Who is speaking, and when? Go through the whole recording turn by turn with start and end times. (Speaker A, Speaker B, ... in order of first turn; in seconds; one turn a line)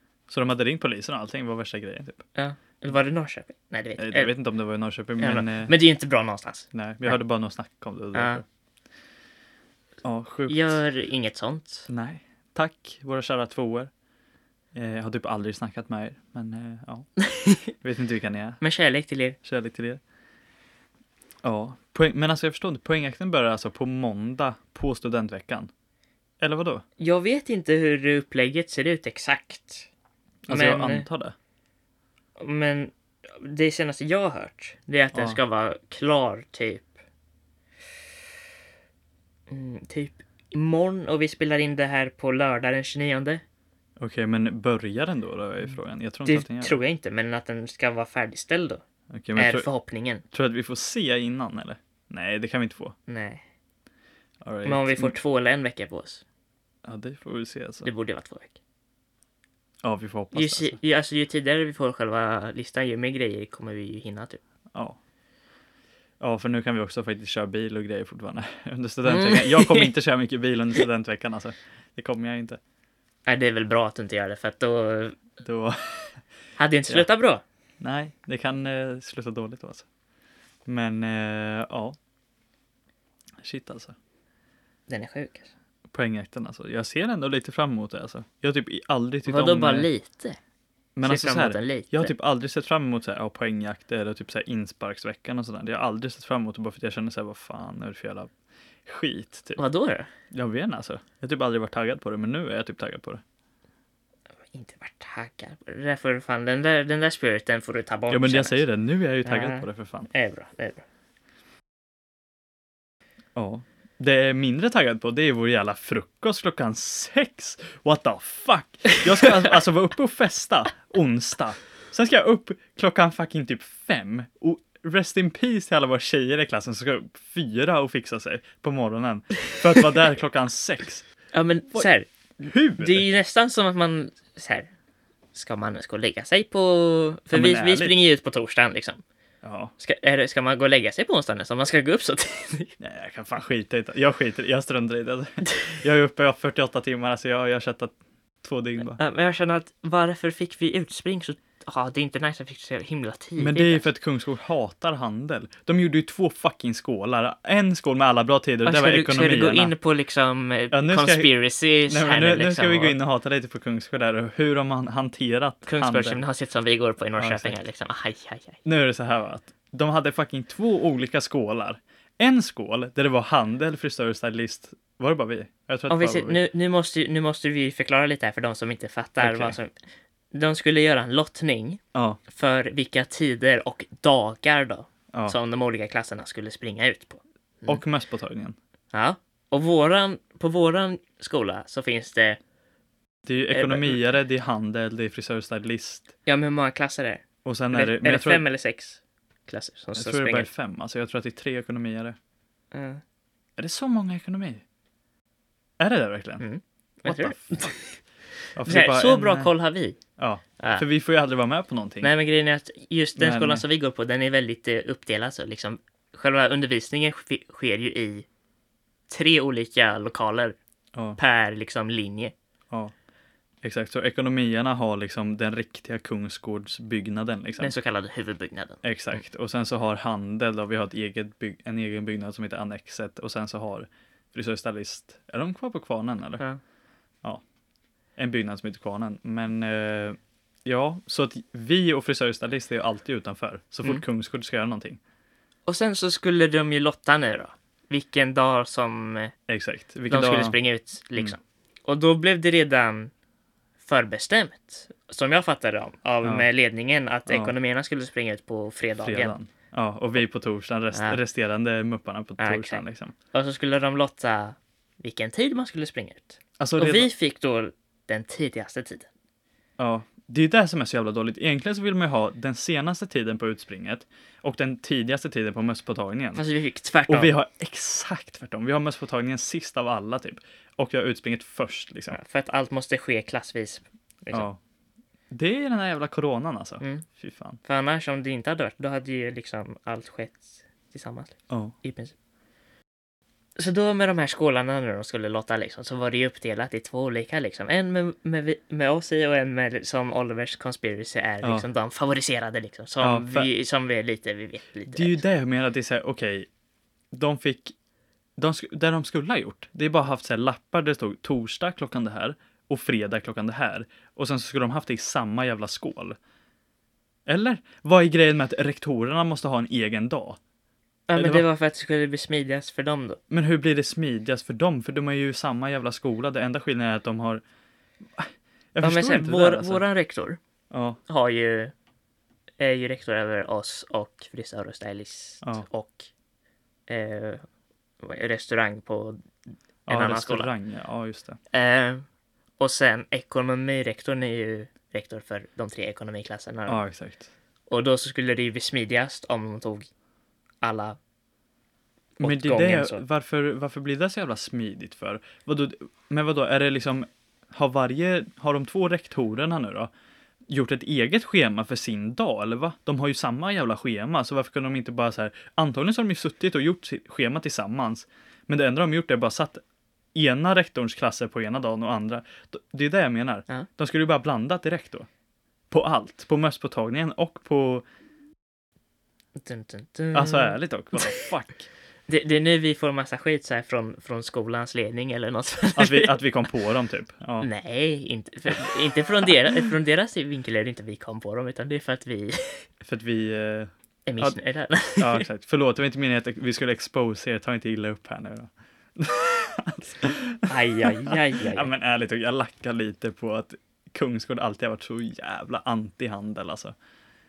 Speaker A: 0.3-2.2
Speaker B: 2.3-4.3
Speaker A: 4.0-5.7
Speaker B: 5.2-7.2
Speaker A: 6.7-8.4
Speaker B: 8.1-8.4
Speaker A: 10.0-10.8
Speaker B: 10.5-11.8
Speaker A: 11.9-13.9
Speaker A: 14.8-17.1
Speaker B: 17.2-17.7
Speaker A: 17.8-18.6
Speaker B: 18.6-19.4
Speaker A: 19.4-20.0
Speaker A: 21.4-25.7
Speaker A: 26.4-26.8
Speaker B: 27.0-29.9
Speaker A: 30.5-31.3
Speaker B: 30.5-31.1
Speaker B: 32.4-36.9
Speaker A: 35.1-35.4
Speaker B: 39.5-43.4
Speaker A: 44.0-46.8
Speaker B: 46.2-48.8
Speaker A: 49.1-49.7
Speaker B: 49.4-50.2
Speaker A: 50.3-53.0
Speaker B: 53.1-53.4
Speaker A: 54.4-55.1
Speaker B: 54.6-56.2
Speaker A: 56.8-57.9
Speaker B: 57.8-58.6
Speaker A: 59.8-60.8
Speaker B: 60.3-64.4
Speaker A: 66.2-72.6
Speaker B: 69.1-69.9
Speaker B: 73.2-75.2
Speaker A: 75.4-76.1
Speaker B: 76.6-77.4
Speaker A: 77.8-79.9
Speaker A: 80.7-82.0
Speaker A: 83.4-84.0
Speaker B: 84.9-85.5
Speaker A: 85.9-89.9
Speaker B: 89.2-90.4
Speaker A: 91.0-98.3
Speaker B: 91.0-92.1
Speaker A: 98.9-99.6
Speaker B: 99.6-100.1
Speaker A: 100.3-103.2
Speaker B: 104.5-108.6
Speaker A: 108.1-110.1
Speaker B: 109.2-110.9
Speaker A: 113.4-131.1
Speaker B: 131.3-132.1
Speaker A: 132.4-133.1
Speaker B: 132.8-134.7
Speaker B: 135.3-139.0
Speaker A: 137.3-138.0
Speaker A: 139.4-139.7
Speaker B: 139.8-142.8
Speaker A: 142.8-149.0
Speaker B: 148.8-153.9
Speaker A: 153.4-159.7
Speaker B: 158.6-162.9
Speaker A: 160.7-161.3
Speaker A: 161.9-166.2
Speaker B: 165.7-168.6
Speaker A: 167.2-167.6
Speaker A: 168.6-176.4
Speaker B: 175.9-179.7
Speaker A: 179.2-179.6
Speaker B: 180.3-187.8
Speaker A: 181.9-182.2
Speaker A: 187.7-188.6
Speaker B: 188.9-192.4
Speaker A: 193.3-196.1
Speaker B: 193.5-194.0
Speaker B: 196.2-200.5
Speaker A: 197.4-198.4
Speaker A: 199.9-202.2
Speaker B: 202.7-203.0
Speaker A: 203.6-204.6
Speaker A: 205.8-206.4
Speaker B: 206.4-208.0
Speaker A: 207.1-207.6
Speaker A: 208.6-209.5
Speaker B: 208.6-210.0
Speaker A: 210.2-212.1
Speaker B: 210.6-210.8
Speaker B: 212.0-218.2
Speaker A: 213.2-213.6
Speaker B: 219.1-220.6
Speaker B: 221.2-222.3
Speaker A: 223.6-227.8
Speaker B: 227.6-229.2
Speaker A: 228.8-236.4
Speaker A: 238.2-245.0
Speaker B: 245.7-249.3
Speaker A: 249.5-250.6
Speaker B: 250.1-253.1
Speaker B: 253.8-259.4
Speaker A: 256.2-256.5
Speaker A: 257.3-257.6
Speaker A: 259.0-263.1
Speaker B: 260.9-261.2
Speaker B: 262.4-269.1
Speaker A: 266.6-267.1
Speaker A: 269.8-276.4
Speaker B: 276.4-277.3
Speaker A: 277.1-282.2
Speaker B: 282.1-284.5
Speaker A: 284.3-284.6
Speaker A: 285.3-287.6
Speaker B: 287.6-292.1
Speaker A: 291.5-291.7
Speaker B: 293.6-305.2
Speaker A: 303.0-303.5
Speaker A: 304.9-306.5
Speaker A: 307.1-307.7
Speaker A: 308.4-316.2
Speaker A: 317.3-320.4
Speaker B: 321.1-323.2
Speaker A: 321.2-321.5
Speaker A: 323.3-327.4
Speaker A: 328.2-329.9
Speaker B: 328.8-330.4
Speaker A: 330.7-331.0
Speaker B: 331.1-331.7
Speaker B: 332.6-336.1
Speaker A: 335.4-335.7
Speaker B: 336.9-337.4
Speaker B: 338.0-339.2
Speaker A: 339.9-341.4
Speaker B: 339.9-340.5
Speaker B: 341.5-342.1
Speaker B: 342.6-346.8
Speaker A: 346.7-347.3
Speaker B: 347.7-349.9
Speaker B: 350.6-351.0
Speaker B: 352.2-353.0
Speaker A: 352.2-359.9
Speaker A: 360.5-369.6
Speaker A: 370.1-375.1
Speaker A: 375.7-377.8
Speaker B: 379.4-381.2
Speaker A: 380.1-381.7
Speaker B: 382.1-386.2
Speaker A: 385.8-387.5
Speaker B: 387.4-392.6
Speaker A: 392.8-394.4
Speaker B: 394.1-395.2
Speaker A: 395.0-406.7
Speaker B: 400.5-401.7